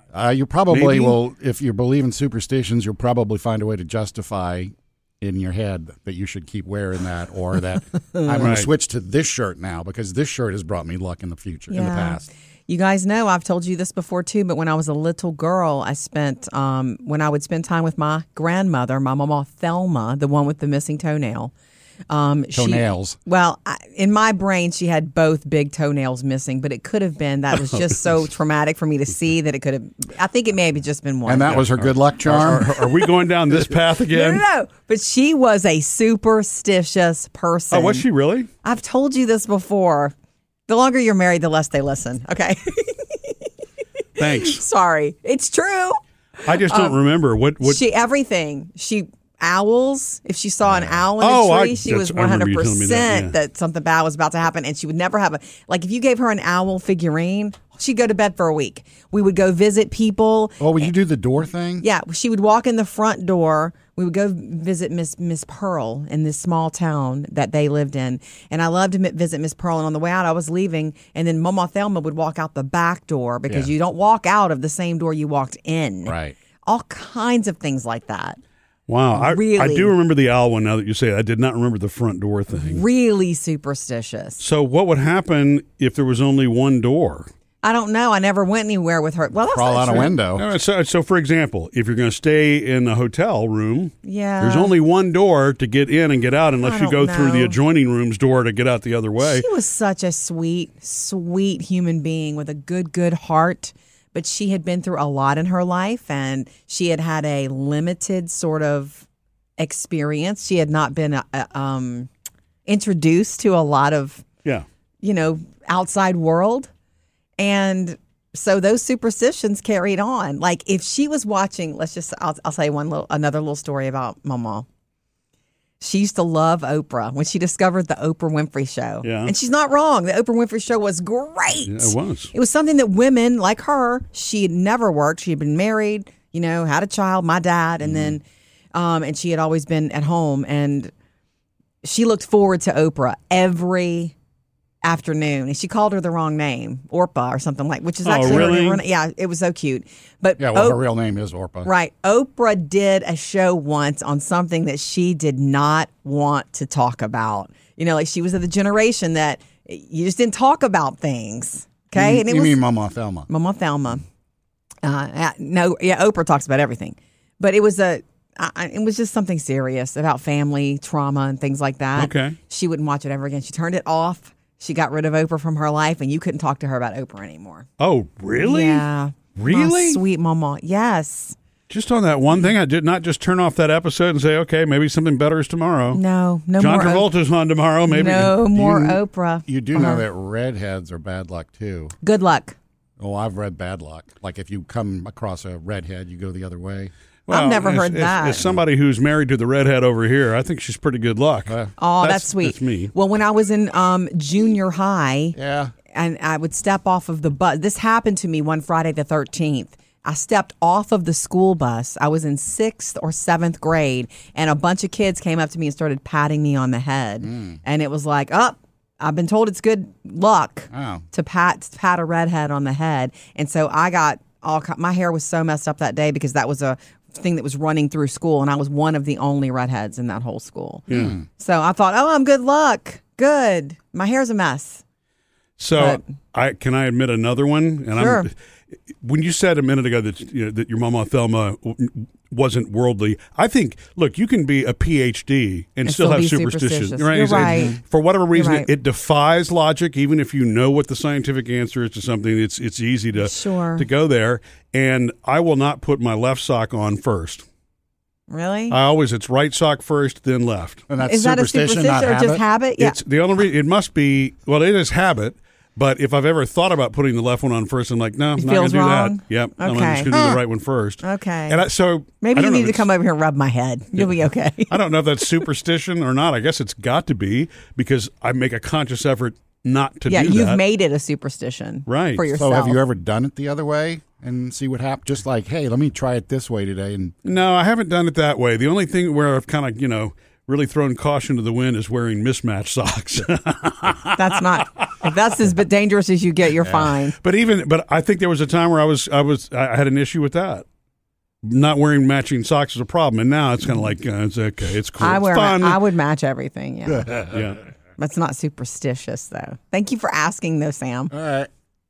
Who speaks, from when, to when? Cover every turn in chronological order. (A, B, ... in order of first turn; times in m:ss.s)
0:00.1-0:12.3 A
0:00.7-0:01.2 B
0:08.4-0:08.7 B
0:11.7-0:21.5 C
0:22.1-0:31.6 C
0:22.5-0:23.2 A
0:31.3-0:32.7 A
0:31.5-0:34.4 B
0:34.1-0:38.1 C
0:37.7-0:38.5 B
0:38.6-0:40.1 C
0:40.7-0:43.4 C
0:44.2-0:44.6 B
0:44.2-0:47.0 C
0:46.4-0:47.8 B
0:47.6-1:00.9 C
0:50.7-0:50.9 A
0:51.2-0:53.4 B
1:00.6-1:01.8 A
1:01.8-1:18.4 C
1:16.1-1:16.4 A
1:18.9-1:22.8 B
1:19.1-1:20.0 C
1:22.5-1:24.4 C
1:24.4-1:27.3 B
1:27.6-1:30.2 C
1:29.5-1:30.4 A
1:30.3-1:39.4 B
1:34.0-1:34.7 C
1:36.6-1:37.6 C
1:39.2-1:49.0 C
1:49.6-1:52.1 C
1:52.7-1:54.2 C
1:55.0-1:56.7 C
1:57.4-2:04.7 C
2:05.8-2:18.2 C
2:09.0-2:09.3 B
2:11.6-2:12.3 B
2:17.8-2:18.1 A
2:18.7-2:20.9 C
2:21.8-2:24.1 C
2:24.8-2:30.8 C
2:28.0-2:28.8 B
2:28.3-2:28.6 A
2:30.4-2:31.7 A
2:31.6-2:42.6 C
2:42.0-2:43.3 A
2:43.3-2:44.0 C
2:44.8-2:57.7 C
2:52.0-2:52.4 B
2:57.8-3:00.0 B
2:58.4-3:01.4 C
3:01.7-3:06.0 B
3:05.9-3:07.1 C
3:06.6-3:09.0 B
3:07.9-3:10.0 C
3:09.5-3:11.9 A
3:12.0-3:12.6 C
3:13.0-3:16.9 A
3:17.3-3:22.9 B
3:17.3-3:18.5 C
3:18.3-3:18.6 A
3:21.5-3:21.7 A
3:21.8-3:25.4 C
3:25.4-3:25.7 A
3:25.9-3:54.8 C
3:37.2-3:37.6 A
3:40.7-3:41.0 A
3:50.9-3:51.2 B
3:50.9-3:51.2 A
3:55.6-3:58.3 B
3:55.8-3:56.0 C
3:58.0-3:58.3 C
3:59.0-4:17.4 B
4:05.8-4:07.8 C
4:07.3-4:07.8 A
4:08.3-4:08.7 C
4:13.2-4:13.9 C
4:18.3-4:18.8 C
4:18.7-4:20.8 B
4:20.9-4:22.4 A
4:21.0-4:23.0 C
4:22.8-4:32.9 B
4:28.4-4:30.1 C
4:30.1-4:30.4 A
4:31.0-4:31.6 C
4:32.2-4:34.8 C
4:34.0-4:40.6 B
4:40.1-4:42.8 C
4:41.9-4:42.3 B
4:42.4-4:47.1 A
4:47.2-4:54.4 B
4:54.1-4:57.2 C
4:56.7-5:00.6 B
5:01.4-5:05.8 B
5:05.0-5:07.2 C
5:06.9-5:07.3 A
5:07.2-5:07.6 B
5:08.0-5:11.1 C
5:11.1-5:11.5 A